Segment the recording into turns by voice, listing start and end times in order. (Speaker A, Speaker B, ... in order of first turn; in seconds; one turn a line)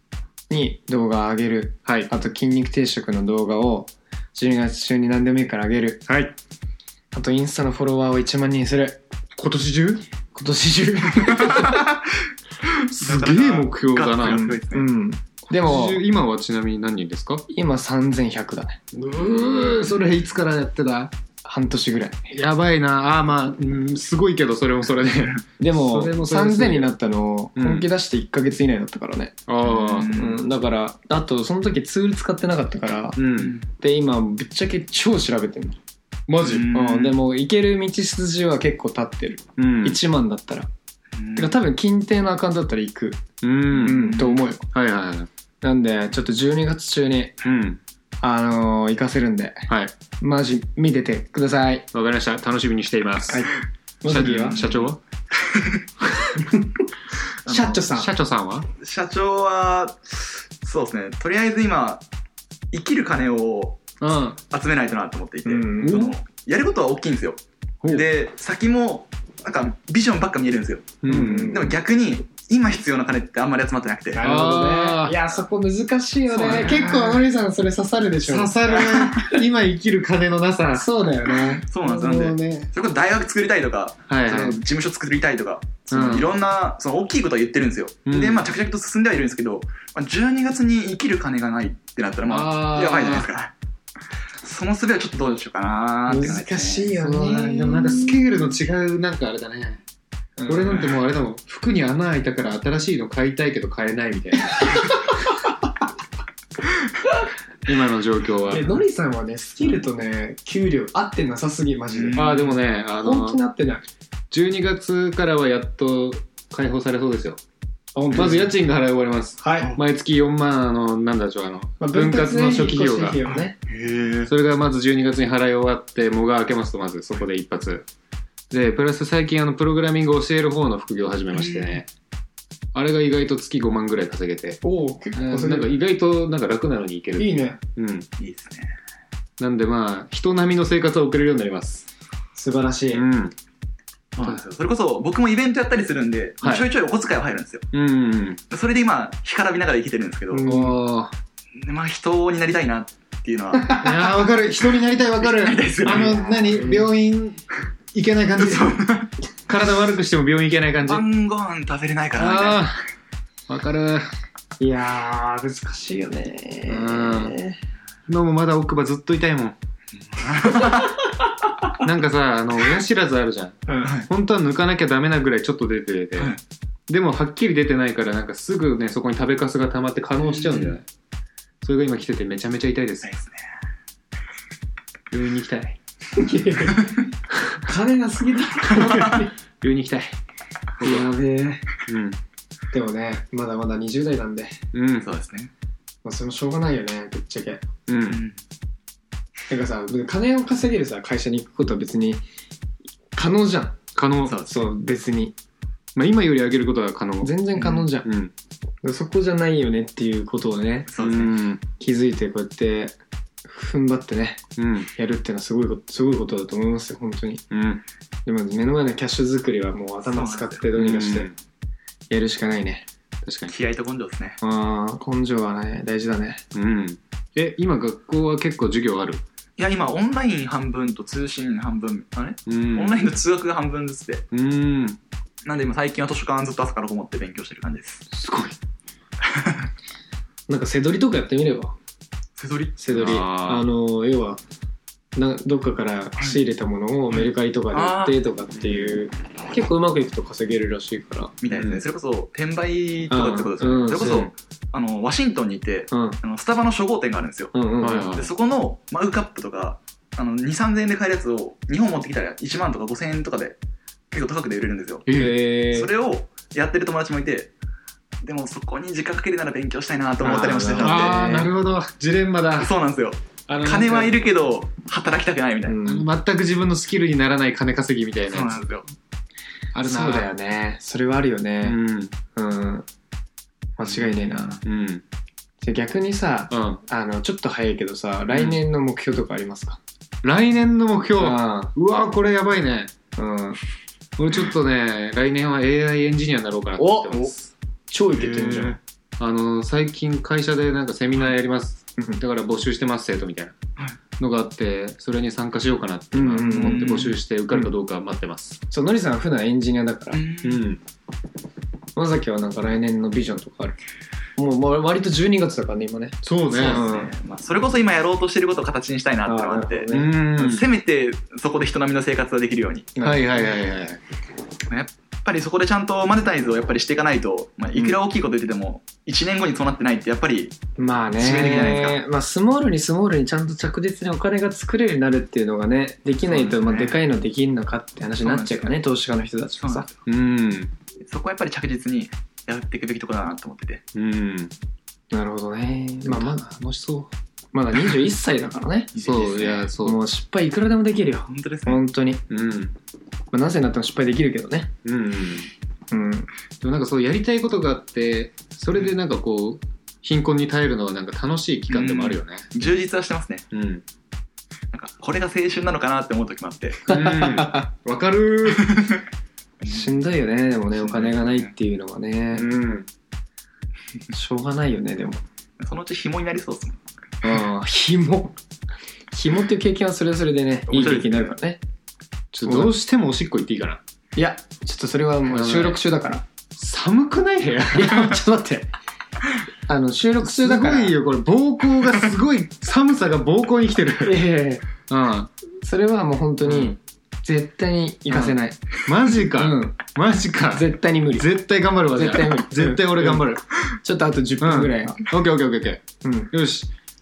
Speaker A: 0.5-6.0
Speaker B: 6.1-6.3
Speaker A: 7.1-9.0
Speaker B: 9.4-10.1
Speaker A: 10.3-11.9
Speaker C: 11.5-11.8
Speaker C: 12.8-14.9
Speaker B: 12.9-14.6
Speaker A: 14.3-16.0
Speaker B: 15.5-17.5
Speaker A: 17.5-18.8
Speaker B: 18.9-21.1
Speaker A: 21.4-22.3
Speaker B: 22.3-26.9
Speaker A: 25.6-29.4
Speaker B: 27.6-27.9
Speaker B: 29.5-30.2
Speaker C: 29.6-30.4
Speaker A: 30.1-35.8
Speaker B: 33.2-33.6
Speaker C: 33.4-33.7
Speaker B: 36.3-36.8
Speaker C: 36.4-37.2
Speaker A: 36.7-40.7
Speaker B: 39.6-40.0
Speaker C: 41.2-41.5
Speaker A: 41.4-44.6
Speaker B: 43.4-44.2
Speaker C: 43.9-44.4
Speaker B: 44.7-45.3
Speaker A: 45.6-47.4
Speaker B: 47.4-47.8
Speaker A: 48.2-51.9
Speaker B: 49.7-49.9
Speaker B: 51.9-53.5
Speaker A: 53.3-54.6
Speaker B: 54.0-55.0
Speaker C: 54.2-54.9
Speaker C: 55.5-55.8
Speaker A: 57.5-58.1
Speaker B: 57.5-58.7
Speaker C: 58.8-62.0
Speaker C: 62.7-74.2
Speaker B: 64.0-64.4
Speaker A: 65.5-66.1
Speaker B: 67.8-68.1
Speaker B: 71.0-71.7
Speaker A: 71.1-71.7
Speaker A: 74.2-79.4
Speaker B: 74.2-75.2
Speaker B: 76.3-77.2
Speaker C: 76.5-76.8
Speaker B: 78.2-80.9
Speaker C: 78.7-79.2
Speaker A: 80.7-81.7
Speaker C: 81.6-93.5
Speaker B: 81.8-82.7
Speaker B: 84.1-84.6
Speaker B: 85.9-86.3
Speaker B: 88.1-88.5
Speaker B: 92.3-93.3
Speaker C: 94.4-97.0
Speaker A: 96.1-98.2
Speaker B: 97.0-99.8
Speaker A: 100.4-100.9
Speaker B: 100.5-105.1
Speaker B: 107.7-108.8
Speaker A: 108.5-113.9
Speaker C: 111.9-112.6
Speaker B: 112.1-113.4
Speaker B: 114.3-117.4
Speaker A: 118.0-118.5
Speaker B: 118.1-123.2
Speaker A: 119.4-119.8
Speaker A: 121.8-123.5
Speaker C: 123.7-124.3
Speaker B: 124.3-127.9
Speaker B: 128.5-131.9
Speaker C: 131.3-131.8
Speaker B: 132.7-134.6
Speaker A: 134.6-135.8
Speaker B: 135.1-138.1
Speaker A: 137.2-137.6
Speaker C: 138.2-138.8
Speaker B: 139.4-141.9
Speaker A: 142.3-143.0
Speaker B: 142.9-143.3
Speaker C: 144.2-147.7
Speaker B: 147.7-148.4
Speaker C: 148.5-150.5
Speaker A: 150.3-150.8
Speaker B: 150.4-151.1
Speaker C: 151.6-154.2
Speaker A: 153.6-153.9
Speaker B: 153.7-158.8
Speaker C: 155.2-156.2
Speaker A: 155.8-156.9
Speaker C: 158.4-159.1
Speaker B: 159.5-161.1
Speaker C: 160.8-162.7
Speaker B: 162.2-162.8
Speaker B: 163.5-164.1
Speaker A: 164.6-167.6
Speaker B: 166.7-167.4
Speaker B: 168.1-169.6
Speaker C: 170.0-170.9
Speaker B: 171.8-176.4
Speaker A: 173.7-173.9
Speaker C: 173.8-174.1
Speaker B: 176.9-180.9
Speaker C: 180.3-180.8
Speaker B: 181.6-183.2
Speaker C: 183.0-183.4
Speaker B: 185.1-185.8
Speaker A: 186.2-187.0
Speaker A: 187.6-189.3
Speaker B: 189.6-190.2
Speaker B: 190.8-191.1
Speaker A: 190.8-191.7
Speaker B: 191.8-192.2
Speaker A: 192.7-194.6
Speaker B: 194.7-195.1
Speaker C: 195.0-195.5
Speaker A: 196.0-197.6
Speaker B: 197.9-198.2
Speaker C: 198.1-198.4
Speaker A: 199.5-202.2
Speaker A: 203.1-203.8
Speaker B: 203.9-204.4
Speaker C: 204.2-204.6
Speaker A: 204.4-205.3
Speaker B: 205.9-208.3
Speaker A: 207.2-208.1
Speaker A: 208.8-210.9
Speaker C: 210.9-211.4
Speaker B: 211.0-211.6
Speaker A: 211.8-212.9
Speaker A: 213.5-214.4
Speaker B: 214.6-214.9
Speaker A: 214.9-217.4
Speaker B: 217.5-217.8
Speaker A: 218.2-221.3
Speaker C: 220.1-220.6
Speaker B: 220.7-221.3
Speaker A: 222.1-222.9
Speaker B: 223.2-223.5
Speaker C: 223.5-224.4
Speaker A: 224.4-226.4
Speaker B: 226.5-229.2
Speaker C: 229.6-234.3
Speaker B: 232.5-233.1
Speaker B: 234.3-235.0
Speaker C: 235.4-238.1
Speaker B: 238.1-238.6
Speaker C: 239.2-239.7
Speaker A: 240.5-241.8
Speaker C: 242.4-242.8
Speaker A: 242.8-244.4
Speaker B: 242.9-243.7
Speaker A: 245.2-251.3
Speaker C: 247.1-248.2
Speaker B: 248.6-248.9
Speaker C: 251.4-263.6
Speaker B: 251.5-251.8
Speaker A: 253.1-254.3
Speaker A: 255.9-256.2
Speaker A: 257.5-258.1
Speaker B: 257.8-258.3
Speaker C: 264.1-265.1
Speaker B: 265.1-265.4
Speaker A: 265.1-265.9
Speaker C: 265.7-267.5
Speaker C: 268.2-271.2
Speaker A: 270.2-271.5
Speaker B: 270.8-272.7
Speaker C: 272.6-275.8
Speaker B: 273.5-274.2
Speaker A: 275.6-276.1
Speaker B: 275.8-278.7
Speaker C: 278.3-278.9
Speaker B: 279.7-280.3
Speaker A: 279.8-281.8
Speaker B: 281.6-282.1
Speaker A: 282.4-282.9
Speaker A: 283.8-284.6
Speaker C: 284.3-284.6
Speaker B: 284.6-285.0
Speaker A: 285.6-289.8
Speaker B: 286.5-286.8
Speaker B: 288.3-288.6
Speaker B: 290.2-292.9
Speaker A: 291.2-291.7
Speaker A: 293.2-293.6
Speaker B: 294.2-297.5
Speaker A: 296.8-297.3
Speaker A: 297.9-298.8
Speaker C: 298.2-298.7
Speaker B: 299.2-303.6
Speaker B: 304.2-308.6
Speaker A: 306.1-307.7
Speaker C: 306.5-307.1
Speaker A: 308.7-310.2
Speaker C: 310.1-310.7
Speaker B: 310.4-310.8
Speaker A: 311.9-313.8
Speaker A: 314.4-317.1
Speaker B: 316.2-316.9
Speaker C: 316.5-322.9
Speaker A: 319.3-320.2
Speaker B: 319.9-320.7
Speaker A: 323.0-323.5
Speaker B: 323.0-324.0
Speaker C: 324.7-330.6
Speaker A: 330.8-339.9
Speaker C: 331.2-332.0
Speaker C: 336.4-336.9
Speaker C: 338.2-338.8
Speaker C: 339.6-340.0
Speaker B: 340.1-340.7
Speaker C: 341.0-343.8
Speaker B: 343.9-344.5
Speaker A: 345.1-346.4
Speaker B: 346.0-347.1
Speaker A: 347.5-352.2
Speaker C: 348.9-349.6
Speaker B: 349.0-350.0
Speaker C: 351.3-351.8
Speaker B: 352.3-352.8
Speaker A: 353.3-354.7
Speaker B: 354.8-355.5
Speaker A: 355.9-356.3
Speaker B: 356.6-362.7
Speaker C: 361.7-363.4
Speaker B: 363.5-363.8
Speaker C: 364.7-366.9
Speaker B: 366.9-368.9
Speaker A: 366.9-367.7
Speaker C: 368.6-369.0
Speaker C: 369.6-370.0
Speaker A: 369.7-372.5
Speaker C: 370.8-371.5
Speaker B: 372.3-372.9
Speaker A: 374.1-375.2
Speaker C: 375.6-376.9
Speaker A: 377.2-378.4
Speaker A: 379.1-381.6
Speaker C: 380.7-381.4
Speaker B: 380.7-381.0
Speaker B: 382.3-383.8
Speaker A: 382.5-382.7
Speaker A: 384.1-386.3
Speaker B: 385.3-385.8
Speaker B: 386.6-388.1
Speaker A: 387.7-388.7
Speaker A: 389.7-391.0
Speaker B: 390.2-394.3
Speaker A: 394.0-394.7
Speaker B: 394.9-395.3
Speaker A: 395.6-398.6
Speaker B: 396.4-396.8
Speaker B: 398.1-403.4
Speaker A: 399.2-399.8
Speaker A: 400.5-401.3
Speaker A: 401.9-403.2
Speaker A: 403.8-405.0
Speaker B: 404.4-406.7
Speaker A: 406.0-406.3